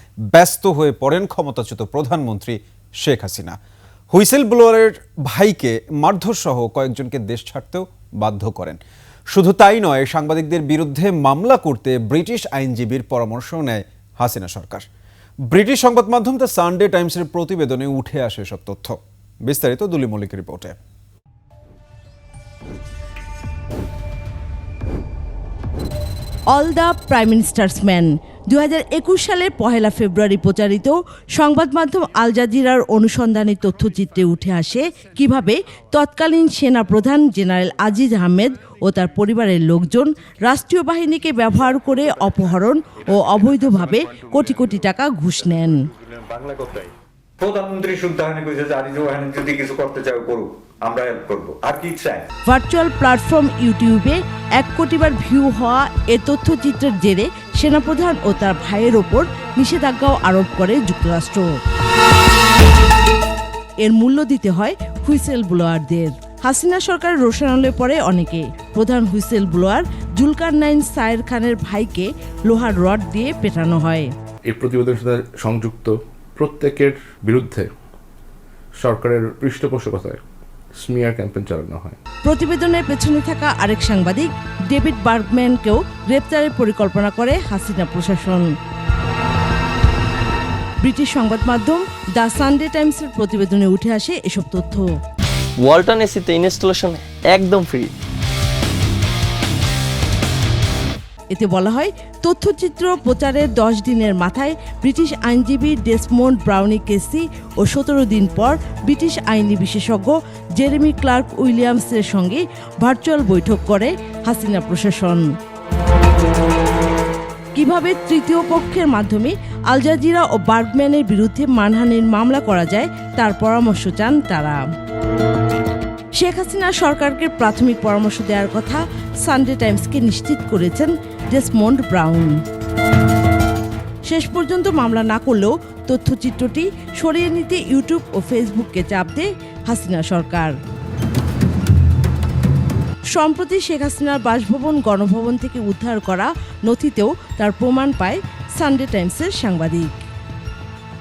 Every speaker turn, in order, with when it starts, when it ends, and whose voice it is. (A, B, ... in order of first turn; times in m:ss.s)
0:00.3-0:03.6 A
0:04.1-0:08.8 A
0:09.3-0:14.9 A
0:15.5-0:20.7 A
0:26.5-0:45.8 B
0:46.0-0:52.2 C
0:52.4-1:01.5 B
1:03.8-1:14.1 B
1:14.5-1:17.7 D
1:18.8-1:20.2 D
1:20.7-1:22.0 D
1:22.2-1:28.5 B
1:30.8-1:34.9 B
1:35.6-1:37.9 E
1:41.3-1:55.2 B
1:57.5-2:04.6 B
2:06.2-2:12.4 B
2:14.0-2:20.5 B
2:23.1-2:30.0 B